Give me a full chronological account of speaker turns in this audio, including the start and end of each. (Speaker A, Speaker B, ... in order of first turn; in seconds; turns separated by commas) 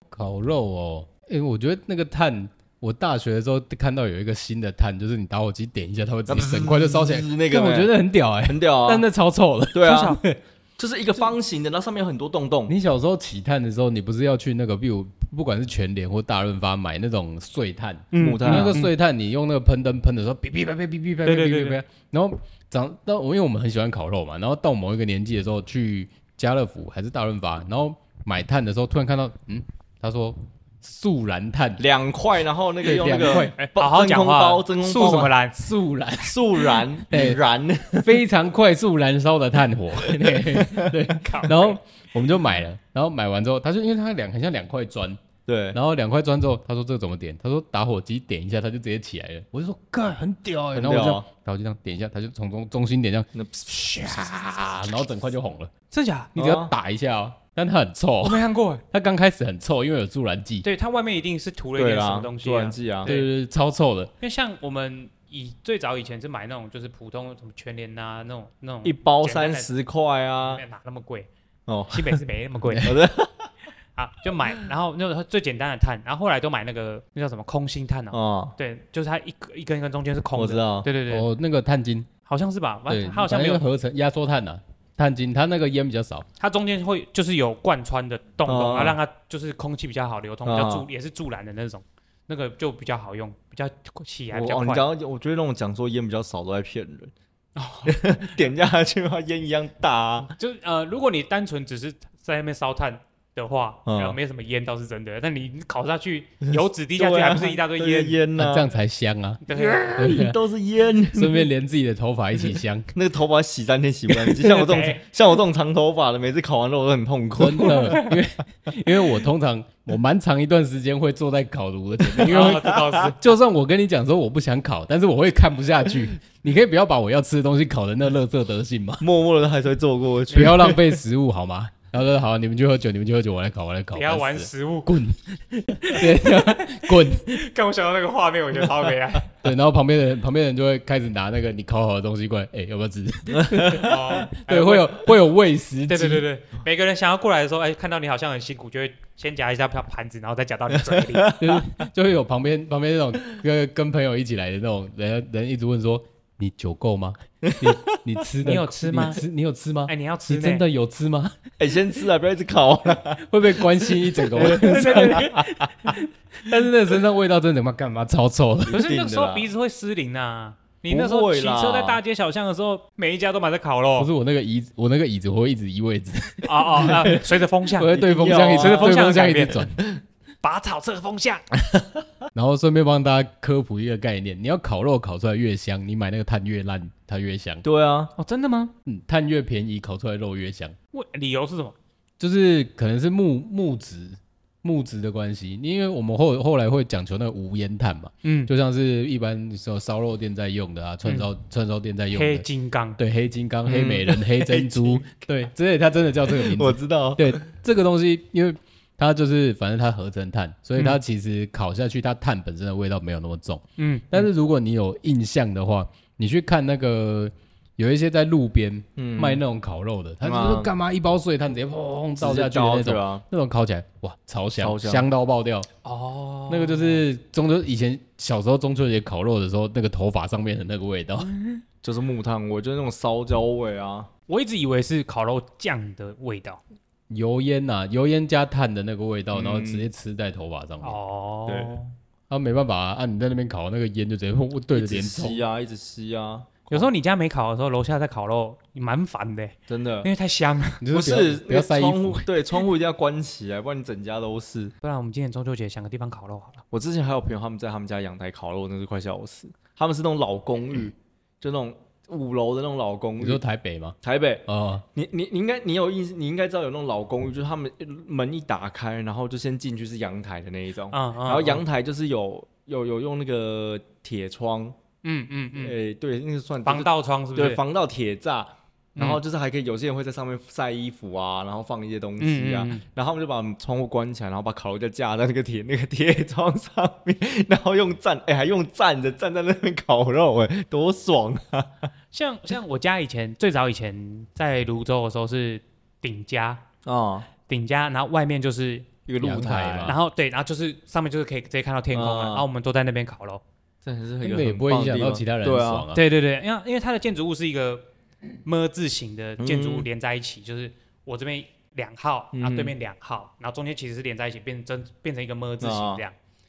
Speaker A: 0.1-10.4, Speaker B: 6.3-9.1, Speaker B: 9.7-10.2, Speaker C: 9.9-10.2, Speaker B: 10.8-12.7, Speaker A: 12.7-31.8, Speaker C: 18.1-18.9, Speaker B: 18.2-18.8, Speaker C: 21.2-21.8, Speaker B: 31.8-35.4, Speaker A: 32.8-33.5, Speaker C: 33.4-35.6, Speaker A: 35.5-37.4, Speaker B: 36.2-38.2, Speaker A: 38.0-45.2, Speaker B: 40.0-41.0, Speaker C: 41.2-41.8, Speaker B: 45.5-45.8, Speaker A: 45.7-55.7, Speaker B: 50.7-51.2, Speaker B: 53.4-53.9, Speaker C: 55.9-56.4, Speaker A: 56.4-60.6, Speaker B: 56.4-56.7, Speaker C: 58.2-58.8, Speaker C: 60.6-63.3, Speaker B: 61.8-63.1, Speaker A: 63.0-64.1, Speaker C: 64.2-69.7, Speaker B: 68.8-70.6, Speaker C: 70.4-71.3, Speaker B: 71.7-72.2, Speaker C: 71.9-73.0, Speaker B: 72.8-73.5, Speaker C: 74.0-81.3, Speaker B: 78.1-78.5, Speaker B: 80.3-80.9, Speaker A: 81.1-82.1, Speaker C: 82.2-83.6, Speaker A: 82.9-86.2, Speaker C: 86.4-94.9, Speaker B: 88.5-89.0, Speaker B: 90.4-90.9, Speaker B: 94.3-97.1, Speaker C: 97.5-98.0, Speaker B: 97.9-100.3, Speaker C: 100.4-108.2, Speaker B: 103.9-104.2, Speaker B: 106.5-108.7, Speaker A: 108.4-110.4, Speaker C: 109.5-110.0, Speaker B: 109.5-111.5, Speaker A: 111.1-112.9, Speaker B: 112.9-118.0, Speaker C: 114.4-115.0, Speaker A: 117.4-129.0, Speaker C: 117.6-118.1, Speaker B: 122.2-123.1, Speaker C: 122.2-123.2, Speaker B: 129.0-131.0, Speaker A: 130.3-137.5, Speaker C: 133.9-134.9, Speaker C: 136.0-139.3, Speaker A: 139.4-146.2, Speaker B: 143.3-144.0, Speaker C: 143.7-145.1, Speaker C: 145.9-151.4, Speaker B: 150.8-151.7, Speaker A: 151.4-161.4, Speaker B: 157.4-158.0, Speaker C: 158.4-159.2, Speaker C: 159.9-160.6, Speaker B: 161.6-165.9, Speaker A: 163.2-168.8, Speaker C: 164.4-165.4, Speaker B: 168.7-169.5, Speaker C: 168.7-174.1, Speaker B: 170.9-172.0, Speaker A: 174.0-179.8, Speaker C: 176.4-179.7, Speaker B: 177.9-179.0, Speaker C: 180.4-181.4, Speaker A: 182.3-187.6, Speaker B: 187.6-188.1, Speaker C: 188.2-188.7, Speaker A: 188.9-190.8, Speaker C: 190.9-191.8, Speaker A: 192.2-202.4, Speaker C: 198.2-198.5, Speaker C: 202.1-203.0, Speaker A: 203.0-225.7, Speaker B: 203.7-205.0, Speaker B: 206.3-207.4, Speaker C: 213.8-214.2, Speaker B: 219.0-219.4, Speaker B: 220.2-220.7, Speaker B: 222.2-223.2, Speaker B: 224.6-225.1, Speaker C: 225.8-227.0, Speaker A: 226.5-231.3, Speaker C: 231.2-231.6, Speaker B: 231.8-234.1, Speaker C: 234.3-236.6, Speaker A: 237.1-241.0, Speaker B: 239.3-239.9, Speaker C: 240.8-241.9, Speaker B: 241.5-241.8, Speaker A: 242.3-245.4, Speaker B: 244.7-246.9, Speaker C: 246.7-250.8, Speaker B: 249.7-250.1, Speaker A: 250.8-252.3, Speaker B: 250.9-254.7, Speaker C: 254.8-256.6, Speaker B: 256.7-263.4, Speaker A: 263.2-264.8, Speaker B: 264.0-274.7, Speaker C: 270.9-271.6, Speaker C: 275.0-275.8, Speaker B: 275.6-291.9, Speaker C: 276.6-277.6, Speaker C: 282.2-282.8, Speaker C: 292.1-296.6, Speaker B: 296.9-297.3, Speaker C: 297.4-298.9, Speaker B: 299.1-299.9, Speaker A: 299.2-300.0, Speaker C: 299.9-303.4, Speaker B: 301.9-302.4, Speaker B: 303.8-305.9, Speaker A: 304.2-306.0, Speaker C: 305.9-307.9, Speaker C: 308.4-316.1, Speaker B: 309.4-309.9, Speaker B: 312.3-312.7, Speaker B: 315.6-316.0